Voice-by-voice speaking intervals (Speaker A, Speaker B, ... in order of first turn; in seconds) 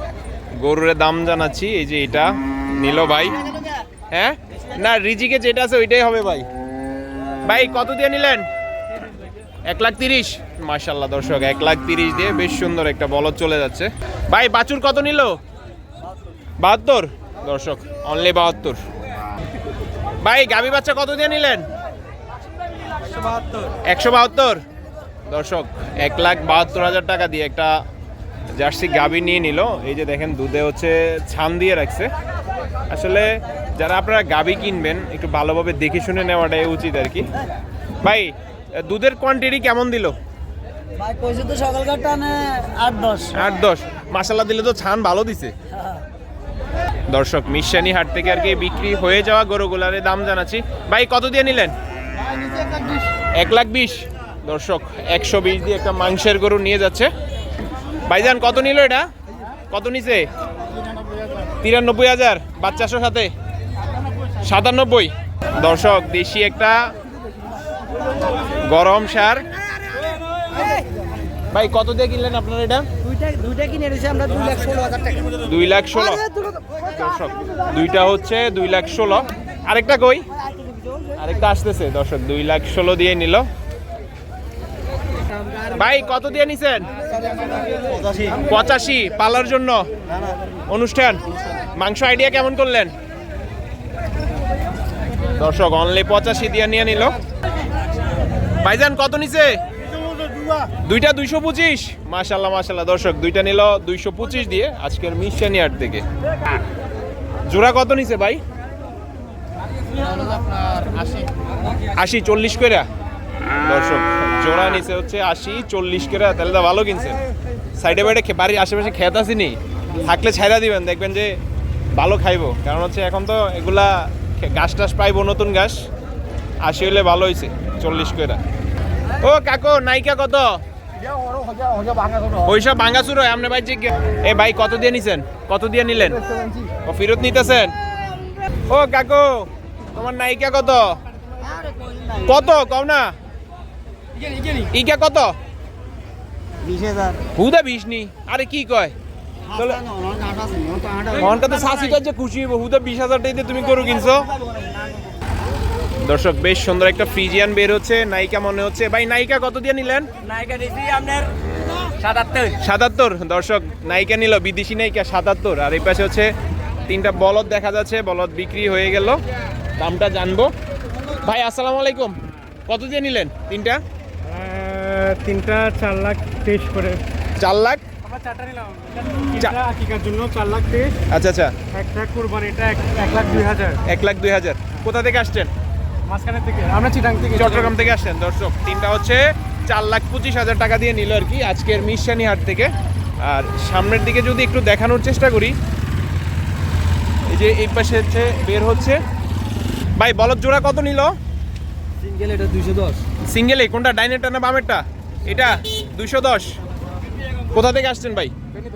Speaker A: 0.6-3.4, 4.1-6.5, 7.5-8.4, 9.7-15.4, 16.6-18.8, 20.2-21.6, 23.8-24.6, 25.3-27.8, 28.5-32.1, 32.9-37.3, 38.0-40.1, 43.3-45.5, 47.1-51.7, 53.4-57.1, 58.1-59.1, 59.7-60.3, 61.6-63.3, 64.4-66.9, 68.6-69.4, 71.5-72.9, 75.4-76.3, 76.8-80.2, 81.2-83.5, 85.7-86.9, 88.3-89.9, 90.7-92.9, 95.4-97.2, 98.6-99.6, 100.7-106.0, 107.5-108.4, 112.0-112.8, 113.6-117.2, 117.8-121.4, 121.9-125.8, 126.6-128.4, 129.2-130.6, 132.3-136.2, 136.8-137.7, 138.7-141.0, 142.2-143.1, 144.7-145.3, 147.3-148.9, 149.5-149.9, 151.1-154.3, 156.0-160.1, 162.6-166.3, 166.8-169.2, 169.8-170.5, 171.2-173.8, 177.4-177.8, 181.1-181.5, 183.8-185.5, 187.3-192.7, 193.2-195.6, 197.3-199.0, 200.0-201.1, 203.3-206.6, 207.5-208.3
Speaker B: 41.0-43.4, 73.1-75.2, 87.4-88.3, 141.5-142.2, 146.6-147.2, 149.9-151.1, 160.2-161.3, 161.8-162.6, 202.0-203.0
Speaker C: 174.2-177.0, 178.0-181.0, 181.7-183.8, 186.1-187.9